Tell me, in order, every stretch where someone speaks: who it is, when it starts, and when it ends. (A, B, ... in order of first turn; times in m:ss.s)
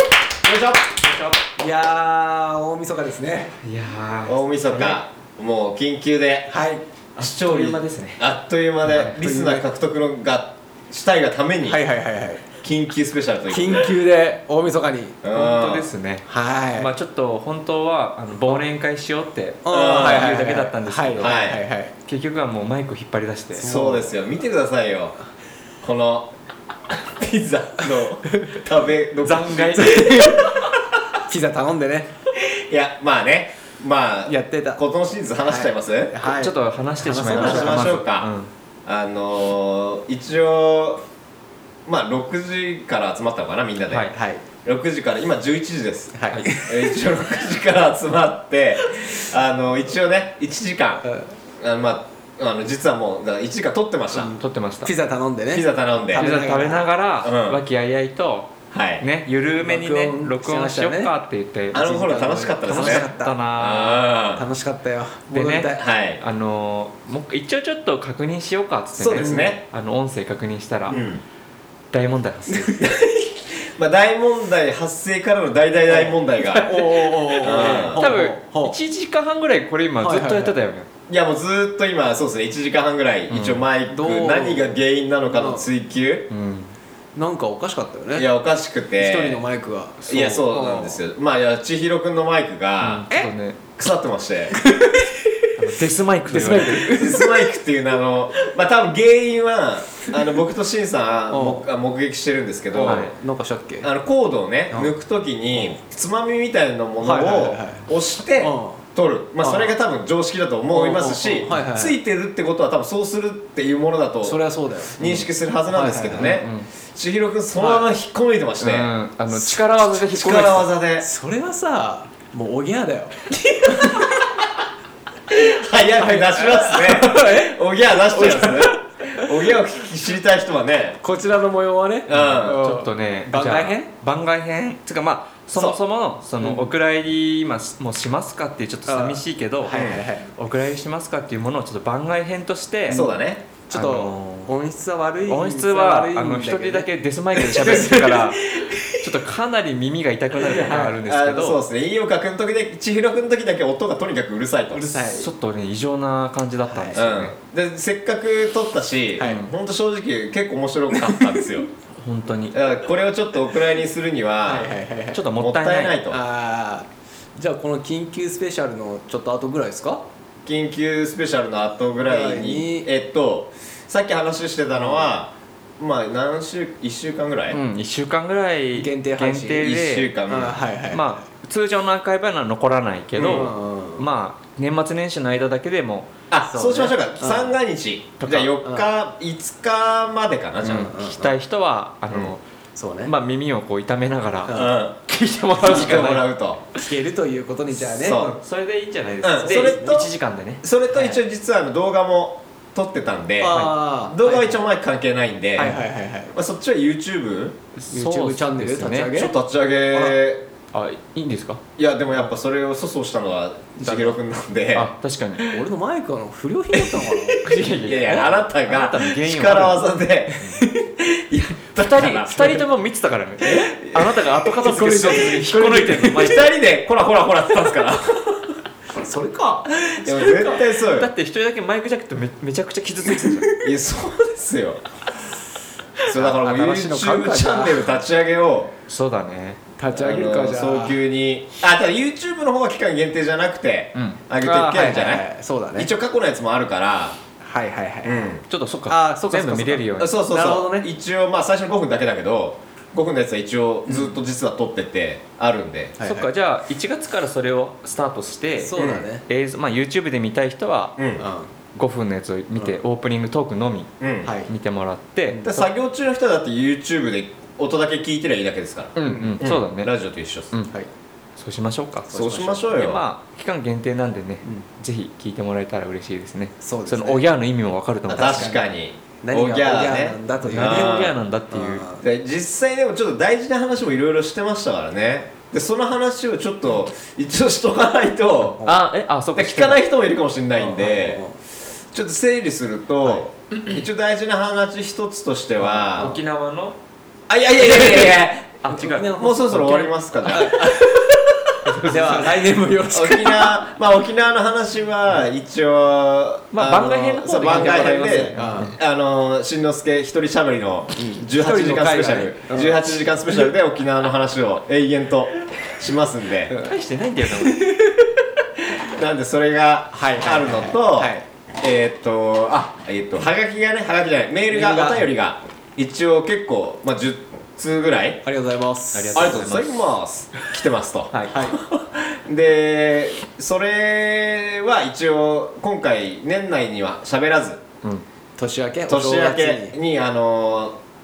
0:00.4-0:00.9 A
0:01.5-0:03.5 A
0:03.6-0:05.0 B
0:04.2-0:06.6 C
0:06.5-0:06.8 A
0:07.2-0:08.2 B
0:07.2-0:11.8 C
0:08.9-0:09.1 B
0:08.9-0:09.6 A
0:11.6-0:12.4 A
0:12.6-0:13.9 C
0:13.5-0:15.2 A
0:15.2-0:15.9 C
0:15.3-0:21.3 B
0:16.2-0:16.9 A
0:19.6-0:21.9 A
0:19.7-0:20.3 C
0:21.2-0:21.6 C
0:22.0-0:23.7 B
0:23.6-0:24.1 A
0:23.6-0:25.1 C
0:25.8-0:26.3 C
0:26.9-0:30.0 C
0:29.2-0:30.4 B
0:29.7-0:30.5 A
0:31.3-0:32.1 A
0:32.4-0:36.1 C
0:34.3-0:34.8 A
0:35.5-0:37.9 A
0:36.2-0:38.5 B
0:37.2-0:38.3 C
0:38.8-0:41.0 C
0:41.8-0:44.1 C
0:43.9-0:44.1 B
0:44.1-0:44.4 A
0:44.6-0:51.0 C
0:46.1-0:47.0 A
0:51.0-0:51.3 A
0:51.6-0:54.4 C
0:54.1-0:56.9 A
0:54.4-0:54.9 B
0:55.5-0:56.3 C
0:56.1-1:01.8 B
0:57.2-0:57.6 C
0:58.7-0:59.0 C
0:59.6-1:01.1 A
1:01.7-1:03.4 A
1:01.7-1:04.5 C
1:02.7-1:04.1 B
1:04.3-1:05.8 A
1:05.3-1:11.0 B
1:05.8-1:06.2 C
1:09.0-1:09.6 C
1:09.2-1:09.5 A
1:10.9-1:11.2 C
1:11.9-1:12.8 B
1:12.7-1:16.8 C
1:15.9-1:18.8 A
1:16.8-1:20.9 B
1:17.4-1:18.1 C
1:20.0-1:20.6 A
1:21.1-1:26.3 C
1:23.3-1:23.6 B
1:23.9-1:24.8 A
1:25.3-1:25.6 A
1:26.3-1:26.7 B
1:27.1-1:28.3 A
1:28.1-1:29.4 C
1:29.0-1:31.0 A
1:30.0-1:33.1 C
1:32.8-1:33.6 B
1:33.8-1:34.6 C
1:34.5-1:35.5 A
1:35.6-1:36.9 B
1:36.3-1:37.5 A
1:36.9-1:43.1 C
1:41.3-1:41.6 A
1:42.7-1:43.9 A
1:42.8-1:43.1 B
1:43.8-1:54.4 C
1:47.0-1:47.9 A
1:48.4-1:48.8 A
1:49.4-1:49.7 A
1:50.7-1:52.0 A
1:54.2-1:56.4 A
1:54.9-1:58.9 C
1:56.2-1:56.7 B
1:57.6-1:57.8 A
1:58.6-2:00.7 B
1:59.3-1:59.6 A
2:00.1-2:01.0 C
2:01.0-2:04.2 A
2:05.3-2:11.0 C
2:05.8-2:09.2 A
2:11.0-2:13.9 A
2:12.1-2:12.6 C
2:12.1-2:19.8 B
2:16.4-2:16.7 A
2:18.8-2:20.3 A
2:19.7-2:20.0 C
2:20.3-2:23.0 B
2:22.9-2:23.4 C
2:22.9-2:29.0 A
2:23.7-2:24.5 B
2:25.3-2:31.6 B
2:30.4-2:31.0 A
2:31.0-2:35.0 C
2:34.7-2:35.3 A
2:35.1-2:37.3 B
2:36.7-2:37.0 A
2:36.9-2:41.7 C
2:39.2-2:39.5 B
2:41.0-2:41.4 A
2:42.0-2:42.5 B
2:42.5-2:44.7 C
2:44.4-2:45.2 A
2:45.1-2:46.0 B
2:45.4-2:46.2 C
2:46.1-2:50.0 A
2:50.4-2:57.6 C
2:52.0-2:52.9 A
2:54.8-2:55.1 A
2:57.5-3:00.1 B
2:58.8-3:01.2 A
2:59.6-3:00.6 C
3:00.9-3:06.1 B
3:03.2-3:03.5 C
3:03.2-3:04.0 A
3:06.3-3:10.9 C
3:06.5-3:07.6 A
3:08.2-3:08.5 B
3:08.6-3:08.9 A
3:10.6-3:11.4 A
3:10.8-3:12.4 B
3:12.8-3:13.1 A
3:13.0-3:16.3 B
3:14.4-3:14.8 A
3:14.5-3:15.0 C
3:15.6-3:16.6 C
3:15.6-3:16.1 A
3:16.7-3:18.2 A
3:17.9-3:20.6 B
3:18.0-3:18.3 C
3:19.2-3:25.8 C
3:19.4-3:19.8 A
3:23.4-3:24.6 A
3:23.5-3:23.8 B
3:25.6-3:26.3 A
3:26.3-3:27.6 C
3:27.8-3:29.2 B
3:27.9-3:29.3 A
3:29.1-3:30.4 C
3:30.7-3:31.6 B
3:31.8-3:34.9 C
3:33.8-3:34.2 A
3:34.7-3:35.6 B
3:35.4-3:37.4 A
3:37.4-3:39.8 B
3:37.7-3:42.6 C
3:41.8-3:46.5 B
3:43.6-3:44.2 C
3:44.6-3:46.2 A
3:46.1-3:48.6 C
3:49.0-3:50.6 A
3:50.0-3:51.1 C
3:50.8-3:53.5 B
3:53.1-3:53.6 A
3:53.6-3:54.8 C
3:56.0-3:58.7 C
3:56.1-3:57.8 A
3:58.9-3:59.6 B
3:59.8-4:01.0 A
3:59.9-4:05.2 C
4:03.9-4:04.2 B
4:04.4-4:05.9 A
4:05.8-4:07.2 C
4:07.4-4:08.2 A
4:08.0-4:08.4 C
4:08.5-4:10.2 B
4:08.9-4:10.9 A
4:10.0-4:16.0 C
4:13.9-4:14.1 A
4:16.0-4:16.3 A
4:16.0-4:21.0 B
4:18.6-4:19.2 A
4:18.8-4:19.0 C
4:21.0-4:21.2 C
4:21.2-4:21.5 A
4:21.7-4:23.9 B
4:24.0-4:24.3 C
4:24.2-4:24.5 A
4:24.4-4:25.7 B
4:25.4-4:30.5 C
4:29.0-4:30.0 B
4:29.0-4:29.4 A
4:31.4-4:38.6 B
4:32.1-4:32.6 A
4:32.1-4:33.0 C
4:36.6-4:37.2 A
4:38.1-4:41.2 C
4:38.2-4:38.6 A
4:39.2-4:42.0 A
4:40.4-4:41.8 B
4:42.0-4:48.7 C
4:48.6-4:49.8 B
4:49.3-4:51.2 C
4:50.6-4:51.4 A
4:51.9-4:56.1 C
4:55.6-4:56.8 B
4:57.3-4:58.6 C
4:57.6-4:59.1 B
4:58.7-5:03.6 A
4:59.2-5:00.7 C
5:01.6-5:02.5 B
5:02.9-5:16.5 C
5:06.5-5:08.7 B
5:07.4-5:08.7 A
5:11.0-5:12.9 A
5:16.6-5:17.8 B
5:17.4-5:17.9 A
5:18.8-5:28.2 C
5:19.9-5:21.2 A
5:24.5-5:25.1 A
5:28.2-5:29.4 A
5:28.9-5:29.8 B
5:29.1-5:37.6 C
5:31.2-5:31.6 A
5:38.4-5:39.7 A
5:38.9-5:40.8 C